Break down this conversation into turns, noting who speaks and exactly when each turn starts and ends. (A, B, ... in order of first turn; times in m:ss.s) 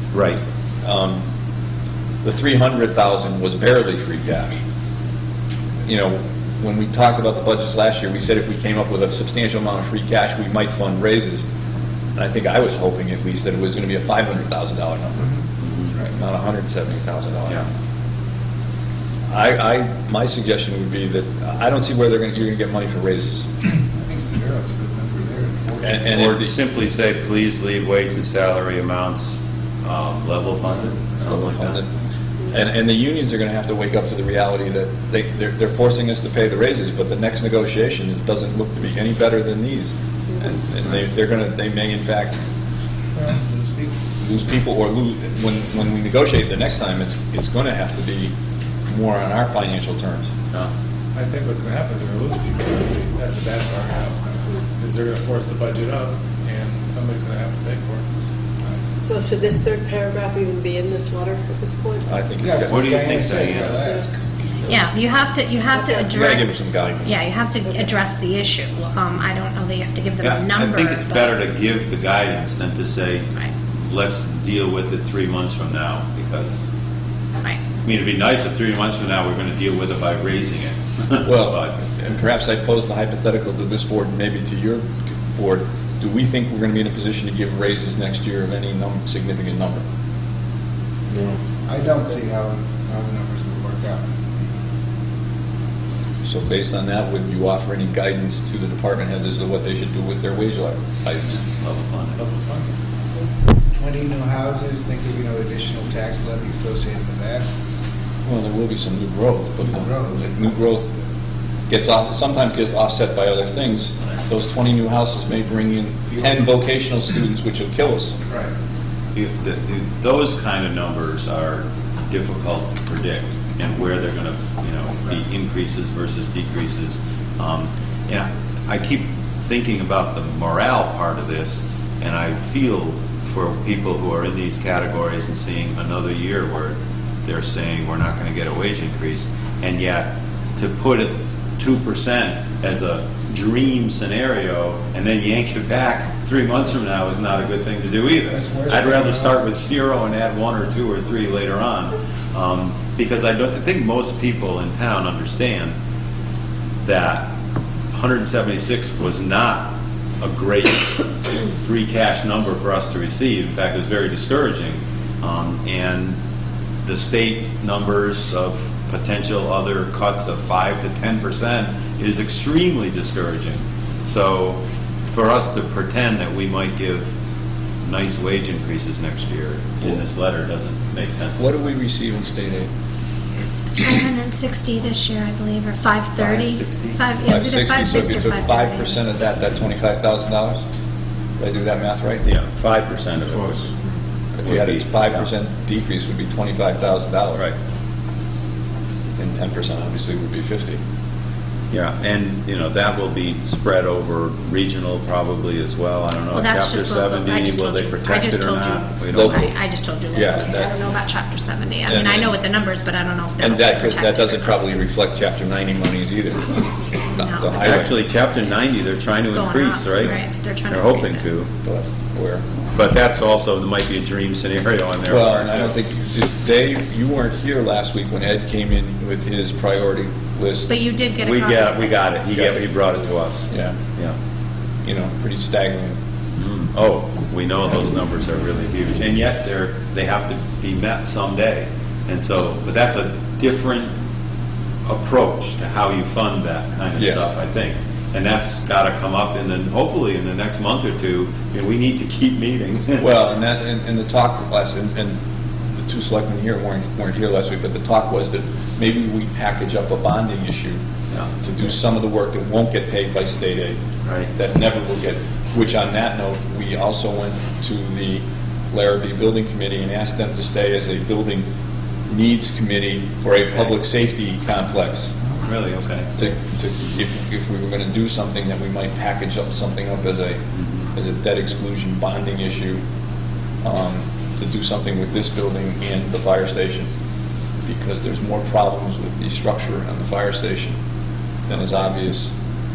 0:00.1-0:00.4 A
0:00.8-0:01.2 B
0:02.2-0:04.6 B
0:05.8-0:11.4 B
0:12.2-0:15.3 B
0:15.2-0:16.1 C
0:15.6-0:15.9 A
0:16.2-0:17.6 B
0:19.3-0:23.5 B
0:23.9-0:26.3 C
0:25.8-0:26.5 B
0:26.1-0:31.8 A
0:30.8-0:31.4 C
0:31.2-0:31.8 B
0:32.5-0:42.4 B
0:43.2-0:43.9 C
0:44.2-0:48.3 B
0:48.9-0:50.3 B
0:51.1-0:58.0 D
0:59.0-1:02.0 E
1:02.1-1:03.0 B
1:02.4-1:04.2 C
1:02.6-1:03.8 A
1:03.8-1:04.1 E
1:04.7-1:11.4 F
1:05.7-1:06.3 E
1:06.1-1:07.2 B
1:10.2-1:16.6 A
1:17.8-1:21.8 A
1:21.2-1:29.8 B
1:31.6-1:34.1 C
1:36.2-1:41.4 B
1:41.5-1:42.2 A
1:42.2-1:42.6 D
1:43.7-1:47.5 C
1:48.2-1:51.0 B
1:49.6-1:50.3 C
1:51.7-1:58.2 B
1:56.1-1:56.4 C
1:59.1-2:35.7 A
2:28.3-2:29.5 C
2:36.8-2:37.3 A
2:37.9-2:46.2 A
2:46.8-2:57.1 A
2:57.8-3:01.6 A
3:01.4-3:02.7 B
3:03.8-3:09.1 F
3:06.2-3:07.0 A
3:07.2-3:10.6 B
3:11.4-3:12.2 B
3:12.2-3:13.7 A
3:14.4-3:17.5 B
3:14.4-3:15.3 A
3:19.2-3:20.8 B
3:21.7-3:29.5 A
3:26.3-3:34.8 F
3:29.1-3:29.5 B
3:30.1-3:30.8 B
3:31.8-3:32.4 B
3:33.4-3:38.0 B
3:37.1-3:37.8 F
3:37.6-3:40.2 A
3:39.3-3:41.3 F
3:40.7-3:41.5 A
3:41.6-3:42.4 B
3:42.7-3:45.7 A
3:45.1-3:50.7 B
3:50.7-3:52.1 F
3:51.2-3:54.2 A
3:52.3-3:52.6 B
3:53.5-3:53.8 B
3:54.8-3:56.0 B
3:56.4-4:03.9 A
4:04.8-4:13.1 A
4:07.0-4:07.3 B
4:13.0-4:15.2 B
4:15.7-4:20.8 B
4:21.4-4:31.4 B
4:32.1-4:35.1 B
4:35.4-4:36.1 A
4:36.2-4:40.4 B
4:40.5-4:40.8 A
4:40.9-4:42.8 B
4:43.6-4:46.9 B
4:47.6-4:50.8 B
4:51.5-4:52.3 B